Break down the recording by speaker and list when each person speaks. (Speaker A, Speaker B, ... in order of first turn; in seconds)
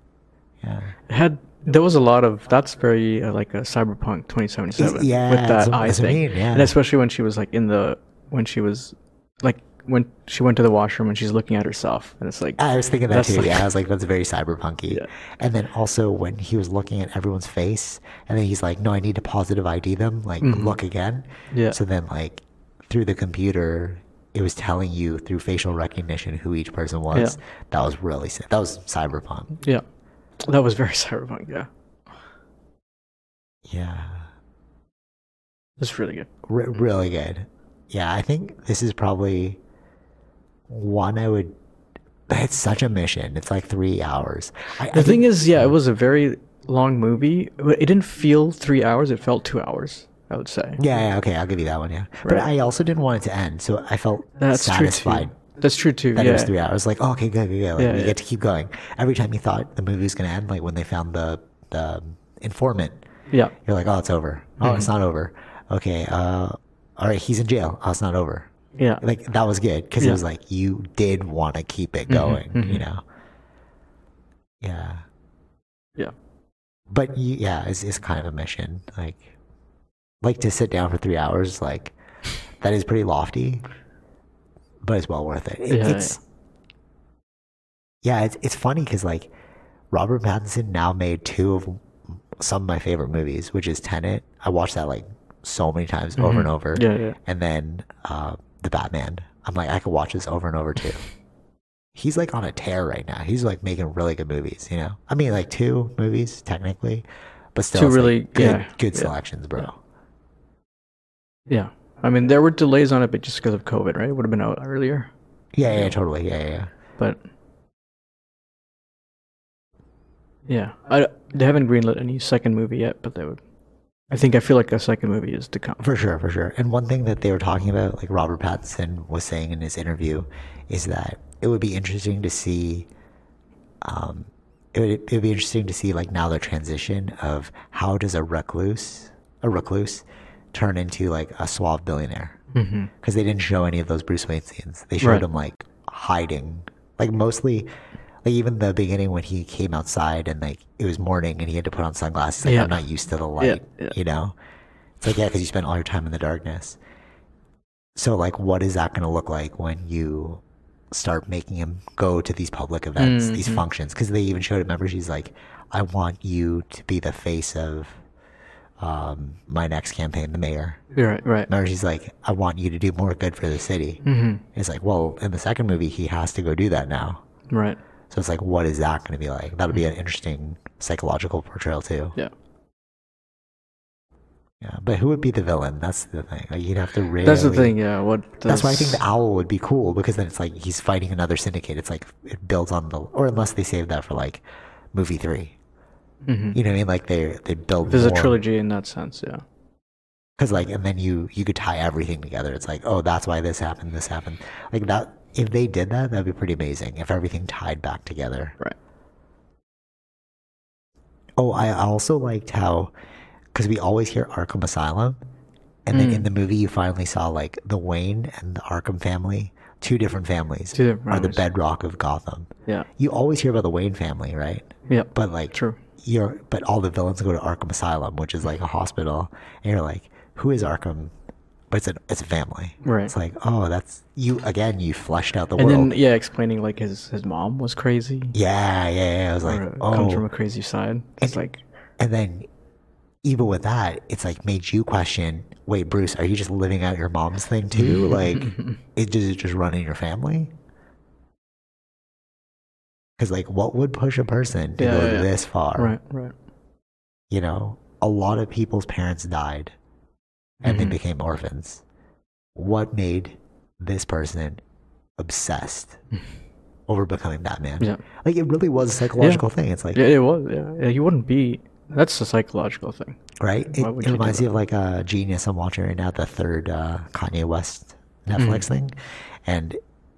Speaker A: 0.6-0.9, 4.7-6.7, 12.6-29.6, 33.7-34.3, 36.5-39.6, 40.7-41.5, 42.3-45.7, 50.8-55.4, 56.1-63.0, 63.6-68.5, 69.0-73.0, 74.6-75.0, 76.9-79.3, 80.2-81.9, 82.6-83.6, 84.8-86.2, 88.0-89.3, 89.9-91.8, 92.3-101.0, 101.9-109.8, 115.5-116.7, 125.8-132.9, 133.8-142.4, 143.0-147.7, 148.2-154.3, 155.0-156.8, 157.9-168.0, 168.8-170.8, 171.5-174.0, 174.5-177.2, 178.1-182.2, 184.6-187.8, 188.4-194.4, 194.9-195.6, 196.5-198.4, 200.4-208.6, 211.4-212.9, 213.5-215.2, 215.8-231.1, 231.7-235.9, 238.3-240.2, 242.0-242.5, 243.2-250.5, 253.2-255.9, 257.3-259.7, 260.6-261.8, 262.6-264.6, 265.2-266.0, 266.9-270.0, 273.4-279.8
Speaker B: 1.1-13.7, 20.4-20.8, 21.5-21.8, 27.1-27.4, 30.4-31.7, 35.8-36.3, 44.9-50.8, 54.4-56.5, 57.8-58.1, 64.6-64.9, 68.8-69.0, 72.1-72.8, 85.7-86.2, 96.2-97.2, 107.7-109.7, 111.5-115.1, 115.6-115.9, 120.5-123.4, 124.1-125.8, 142.5-142.9, 152.4-152.8, 153.4-153.9, 163.0-163.6, 170.9-171.5, 174.0-174.4, 177.5-177.8, 187.2-189.0, 196.2-196.6, 197.8-199.4, 215.9-216.3, 220.7-221.4, 224.9-225.8, 232.8-233.1, 235.6-238.3, 239.4-241.6, 247.7-248.8, 254.8-256.3, 260.6-261.0, 269.2-273.2, 273.7-274.5, 278.4-278.6